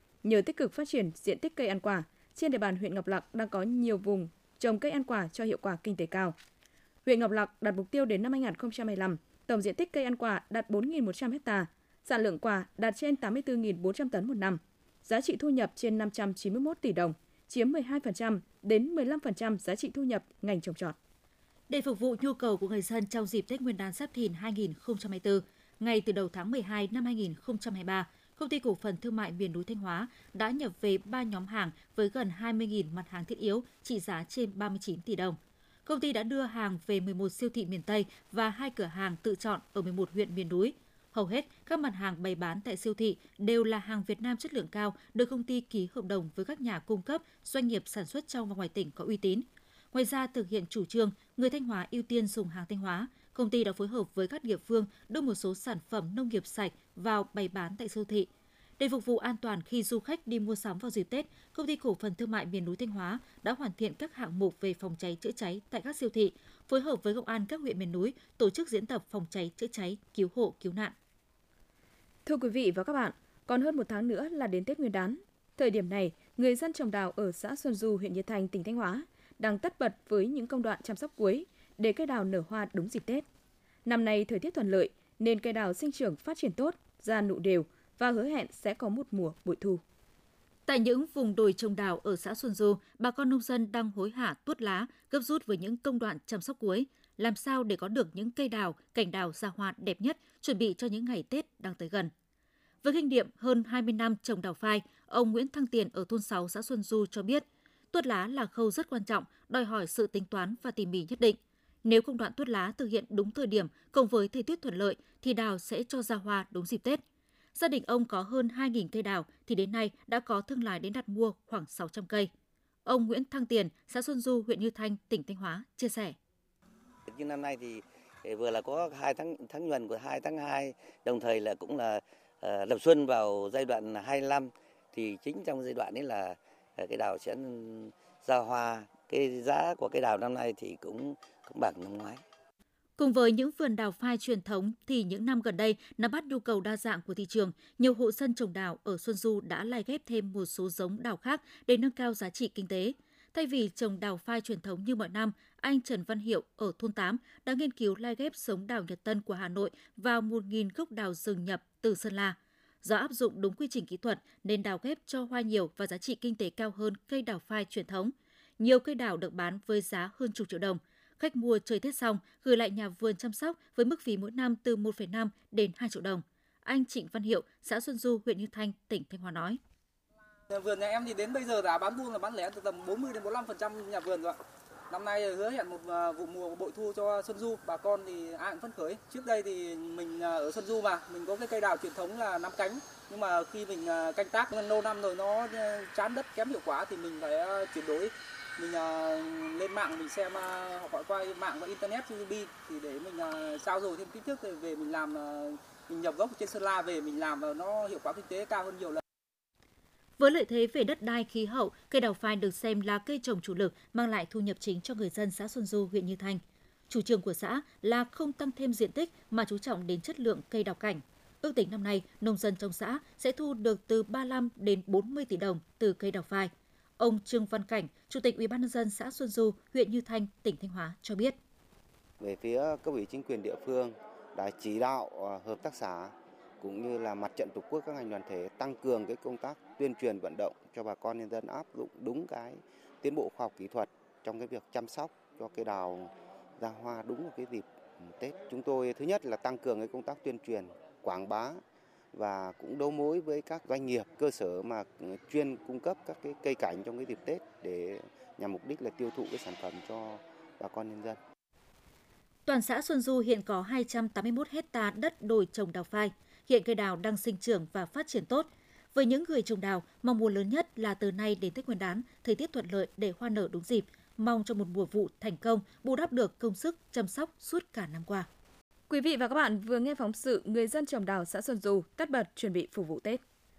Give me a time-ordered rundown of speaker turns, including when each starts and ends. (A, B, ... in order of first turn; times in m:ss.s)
0:00.2-0:06.4 A
0:07.0-0:21.0 A
0:21.7-0:58.3 B
0:58.8-1:10.9 B
1:12.3-1:23.2 A
1:23.8-1:29.8 A
1:30.7-1:42.1 B
1:42.8-1:57.0 B
1:57.6-2:02.3 B
2:02.9-2:06.2 B
2:07.1-2:22.2 C
2:23.0-2:59.6 B
3:00.5-3:04.4 D
3:04.9-3:29.0 D
3:30.2-3:51.4 B
3:52.2-4:11.6 E
4:12.1-4:21.2 E
4:22.5-4:38.3 B
4:38.9-4:43.2 A